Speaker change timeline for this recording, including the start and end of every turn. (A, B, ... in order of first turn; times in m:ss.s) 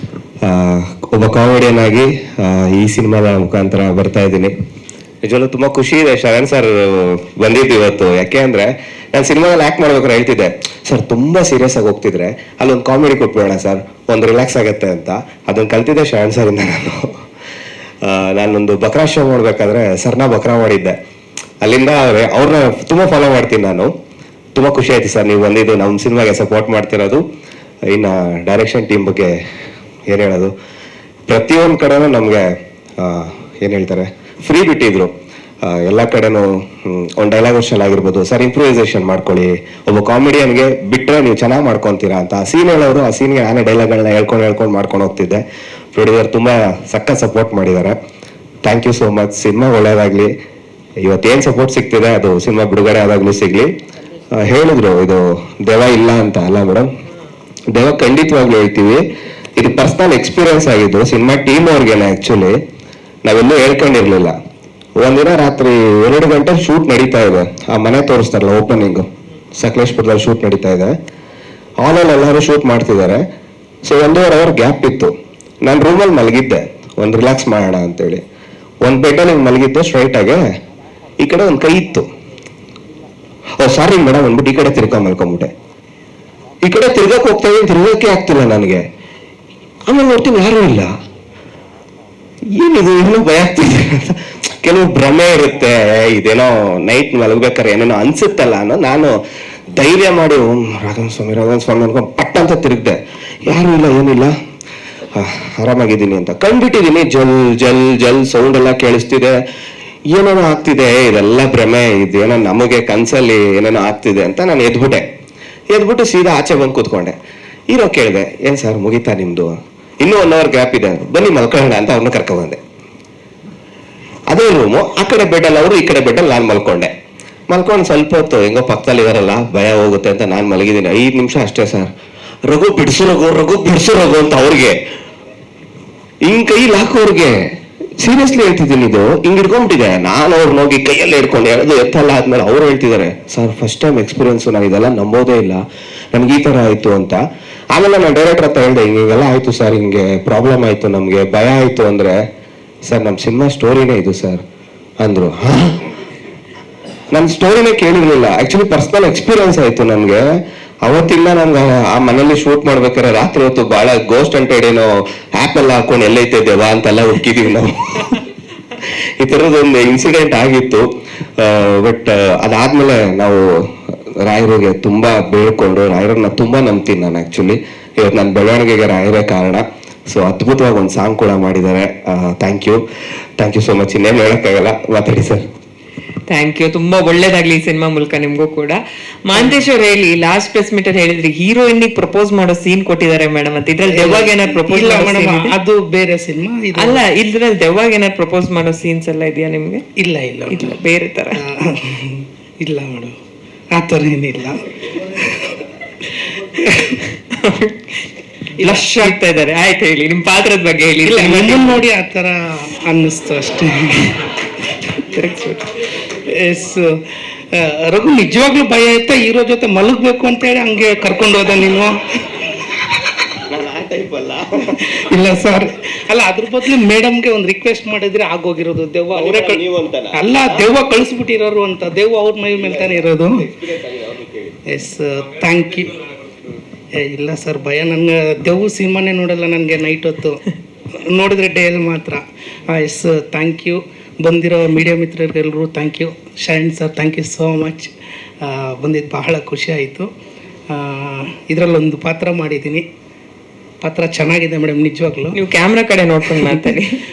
0:00.4-0:04.5 A
0:05.2-0:17.2 A
0:18.0-0:21.0 A
0:21.6-0:23.9 A
0:24.6-0:27.2 A
0:27.9-0:29.4 A
0:30.1-0:30.5 A
0:31.3-0:32.4 A
0:33.0-0:48.0 A
0:48.6-0:50.3 A
0:51.0-0:53.7 A
0:54.3-0:56.9 A
0:57.7-1:02.6 A
1:03.2-1:04.4 A
1:05.0-1:11.0 A
1:11.8-1:13.2 A
1:13.8-1:18.2 A
1:18.8-1:20.4 A
1:21.2-1:22.1 A
1:23.6-1:25.5 A
1:26.6-1:28.8 A
1:29.9-1:30.9 A
1:32.5-1:39.2 A
1:39.7-1:44.4 A
1:45.1-1:49.4 A
1:50.1-1:55.1 A
1:55.7-1:57.2 A
1:57.7-2:02.6 A
2:04.3-2:06.9 A
2:07.5-2:11.9 A
2:12.4-2:14.8 A
2:16.2-2:27.2 A
2:27.7-2:32.2 A
2:32.9-2:34.4 A
2:35.0-2:35.9 A
2:37.1-2:48.2 A
2:49.2-2:50.9 A
2:51.4-3:02.8 A
3:03.4-3:05.4 A
3:06.3-3:15.6 B
3:09.4-3:09.6 C
3:13.9-3:17.0 C
3:16.8-3:19.8 B
3:20.0-3:20.6 C
3:20.5-3:21.4 B
3:21.3-3:23.2 C
3:23.7-3:25.6 C
3:26.2-3:27.0 C
3:27.3-3:27.8 B
3:28.6-3:31.8 B
3:28.6-3:29.2 C
3:31.0-3:34.3 C
3:35.0-3:35.7 B
3:36.0-3:42.4 C
3:43.5-3:44.9 A
3:44.9-3:53.6 C
3:49.1-3:50.6 A
3:53.6-3:54.6 A
3:54.7-3:56.1 C
3:56.9-4:10.1 C
4:10.7-4:12.9 C
4:13.8-4:15.4 C
4:15.3-4:17.0 B